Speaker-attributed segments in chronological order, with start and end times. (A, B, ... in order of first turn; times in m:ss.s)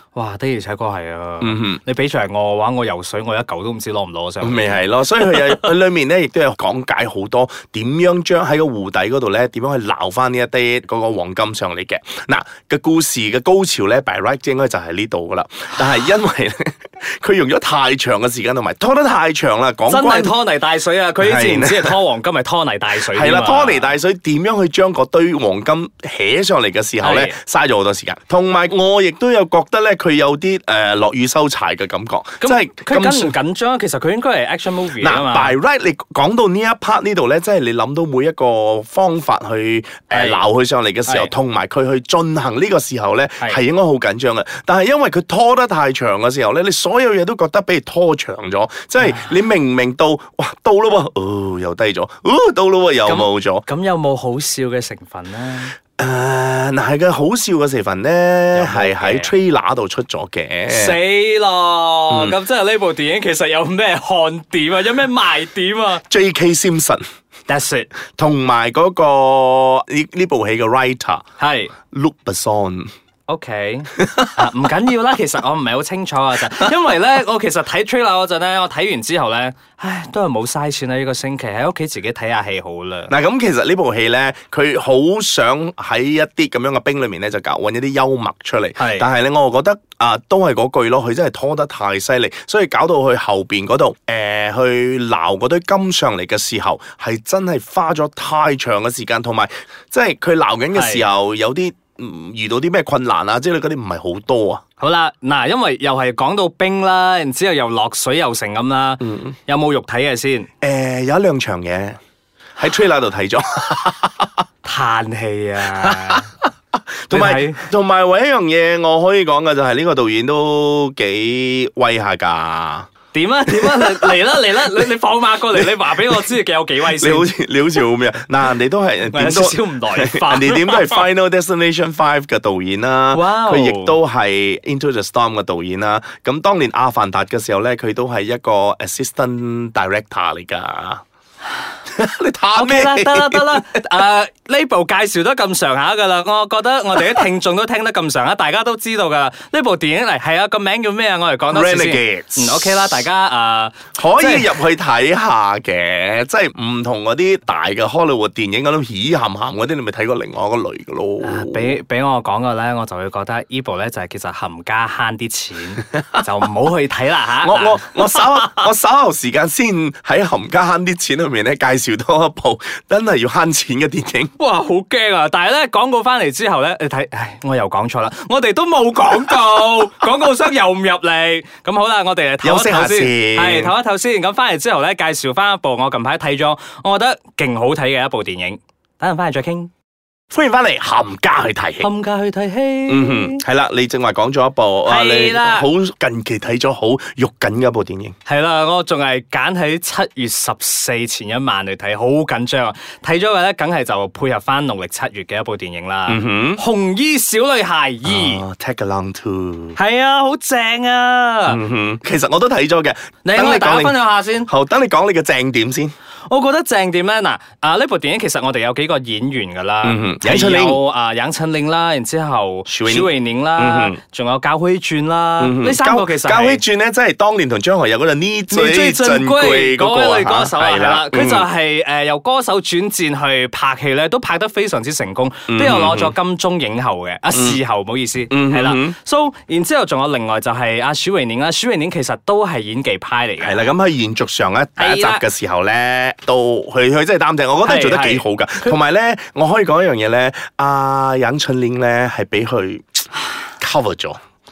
0:00.1-0:05.5 A
0:01.4-0:01.8 B
0:04.4-0:20.4 B
0:19.9-0:23.9 A
0:21.2-0:22.0 B
0:23.0-0:33.4 B
0:27.0-0:27.3 A
0:32.4-0:35.6 A
0:35.0-0:53.6 B
0:40.1-0:40.4 A
0:53.0-0:55.8 A
0:56.0-1:01.0 B
0:58.5-0:59.3 A
1:00.7-1:06.0 A
1:02.1-1:02.4 B
1:06.1-1:07.0 B
1:07.5-1:07.9 A
1:08.1-1:11.2 B
1:11.4-1:11.7 A
1:11.9-1:12.9 B
1:13.3-1:23.1 A
1:14.0-1:14.3 B
1:23.1-1:44.6 B
1:28.8-1:29.1 A
1:40.7-1:41.1 A
1:44.8-1:50.5 A
1:49.0-1:49.3 B
1:50.6-1:52.0 B
1:52.6-1:54.3 B
1:54.6-1:56.2 A
1:55.7-1:56.5 B
1:57.0-2:02.9 B
1:57.1-1:57.6 A
2:03.1-2:07.3 A
2:03.5-2:04.9 B
2:05.5-2:06.3 B
2:06.8-2:21.0 B
2:09.1-2:11.0 A
2:13.1-2:14.0 A
2:21.9-2:23.8 B
2:22.5-2:34.5 A
2:31.5-2:33.0 B
2:34.0-2:41.7 B
2:41.2-2:48.6 A
2:47.4-2:54.3 B
2:54.4-3:09.7 A
3:02.4-3:03.7 B
3:10.3-3:11.9 B
3:11.8-3:13.4 A
3:12.9-3:18.1 B
3:14.8-3:15.7 A
3:18.2-3:28.4 A
3:26.1-3:26.6 B
3:28.0-3:29.8 B
3:29.8-3:31.6 A
3:31.5-3:35.9 B
3:33.2-3:34.5 A
3:36.3-3:46.6 A
3:39.8-3:40.8 B
3:42.7-3:44.0 B
3:45.4-3:51.5 B
3:48.5-4:03.7 A
3:55.5-3:56.1 B
3:57.3-3:57.6 B
3:58.3-3:58.9 B
4:03.4-4:13.0 B
4:04.8-4:05.2 A
4:07.6-4:08.7 A
4:13.6-4:14.2 B